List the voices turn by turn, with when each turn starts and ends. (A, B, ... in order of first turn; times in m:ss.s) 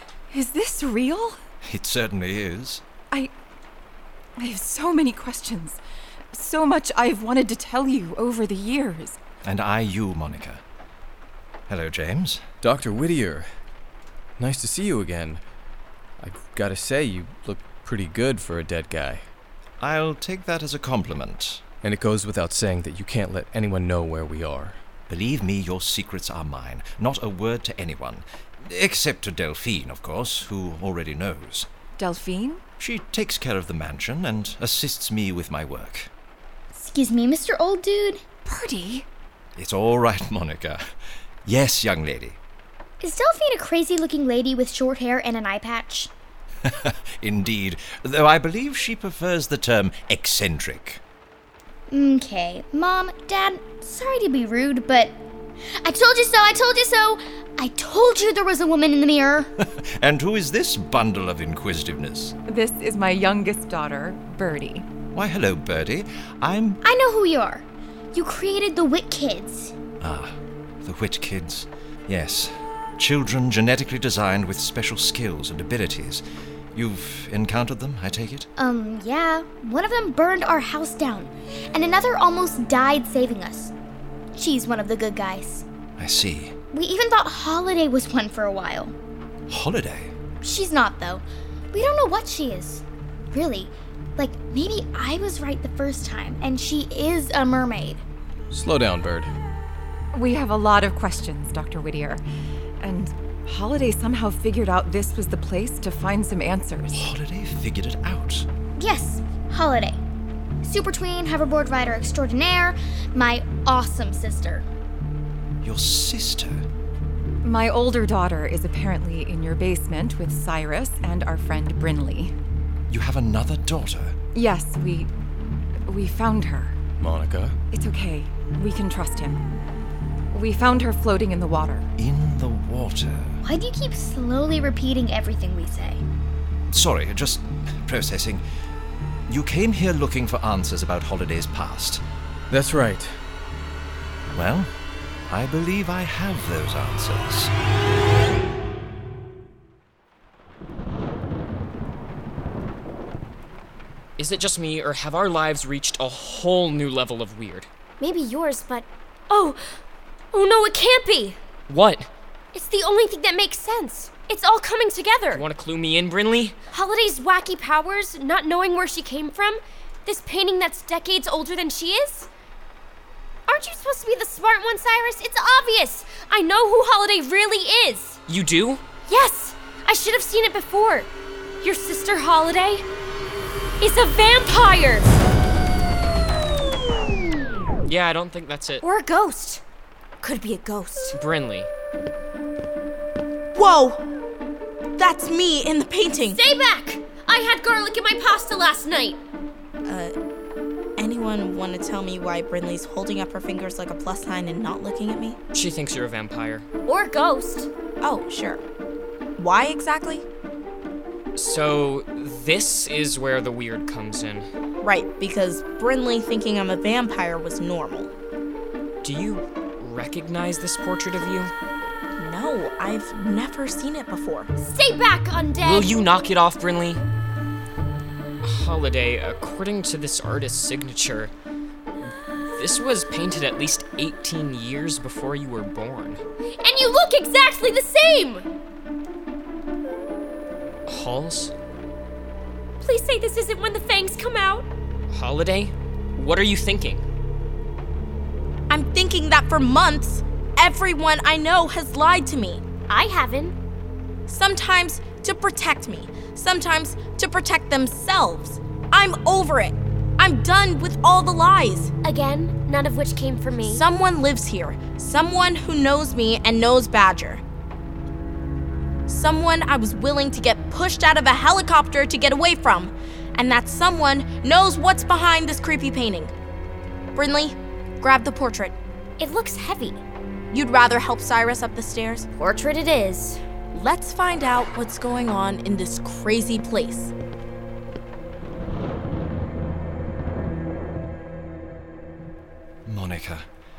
0:00.3-0:01.4 A
0:01.6-0:02.8 B
0:04.4-0:05.8 A
0:06.3-0:09.2 A
0:09.4-0:10.6 B
0:11.7-0:12.4 B
0:12.6-0:13.5 C
0:14.4-0:15.4 C
0:16.2-0:19.3 C
0:19.8-0:21.6 B
0:21.8-0:24.8 C
0:25.1-0:31.7 B
0:32.0-0:32.6 A
0:32.8-0:36.1 B
0:36.7-0:38.2 D
0:38.4-0:39.0 A
0:39.6-0:40.8 B
0:41.4-0:42.4 B
0:43.0-0:46.1 D
0:46.7-0:51.0 B
0:51.9-0:55.1 D
0:55.8-0:59.5 D
1:00.0-1:02.3 B
1:02.5-1:04.9 A
1:05.1-1:06.8 B
1:06.8-1:09.7 D
1:10.0-1:18.5 B
1:18.6-1:23.7 D
1:24.3-1:25.6 D
1:26.0-1:26.6 B
1:26.7-1:29.0 D
1:29.5-1:30.2 B
1:30.4-1:38.0 D
1:38.5-1:39.3 C
1:40.1-1:42.2 A
1:42.8-1:47.1 A
1:46.9-1:48.4 B
1:48.8-1:50.0 D
1:50.6-1:54.6 D
1:55.6-1:56.6 B
1:57.4-2:02.3 A
2:02.9-2:04.2 B
2:04.3-2:05.1 A
2:05.9-2:06.8 A
2:07.0-2:07.6 C
2:07.7-2:09.4 A
2:10.3-2:11.8 A
2:12.0-2:13.4 B
2:13.4-2:16.0 D
2:16.7-2:18.4 B
2:19.3-2:22.0 B
2:22.5-2:23.1 C
2:24.3-2:24.7 B
2:25.3-2:27.5 B
2:34.2-2:37.7 E
2:38.0-2:39.6 F
2:40.3-2:41.4 F
2:41.7-2:42.1 E
2:42.5-2:45.4 F
2:45.3-2:46.6 E
2:46.7-2:52.3 F
2:53.5-2:58.2 F
2:58.3-2:58.8 E
2:59.1-3:01.1 F
3:01.6-3:02.8 F
3:03.8-3:05.2 F
3:07.8-3:08.8 E
3:08.8-3:09.6 F
3:10.2-3:11.1 D
3:11.1-3:11.7 E
3:13.5-3:14.0 G
3:15.0-3:16.4 G
3:16.3-3:19.2 F
3:19.8-3:20.1 G
3:21.0-3:25.4 G
3:25.5-3:26.7 E
3:26.8-3:27.7 F
3:28.0-3:28.6 G
3:29.4-3:30.2 G
3:31.4-3:34.5 E
3:34.8-3:38.1 G
3:39.0-3:41.5 E
3:42.2-3:44.5 G
3:44.6-3:46.0 F
3:45.7-3:47.0 E
3:48.4-3:51.3 E
3:52.4-3:56.2 E
3:56.6-3:58.5 F
4:00.9-4:01.5 E
4:02.8-4:04.7 F
4:05.1-4:07.0 E
4:08.7-4:12.6 G
4:12.9-4:13.5 F
4:14.3-4:21.9 G
4:22.0-4:23.8 F
4:23.6-4:27.4 G
4:29.1-4:36.3 G
4:37.1-4:38.7 G
4:39.2-4:40.0 F
4:40.5-4:42.2 G
4:42.4-4:43.4 F
4:43.7-4:47.1 G
4:52.8-4:53.4 B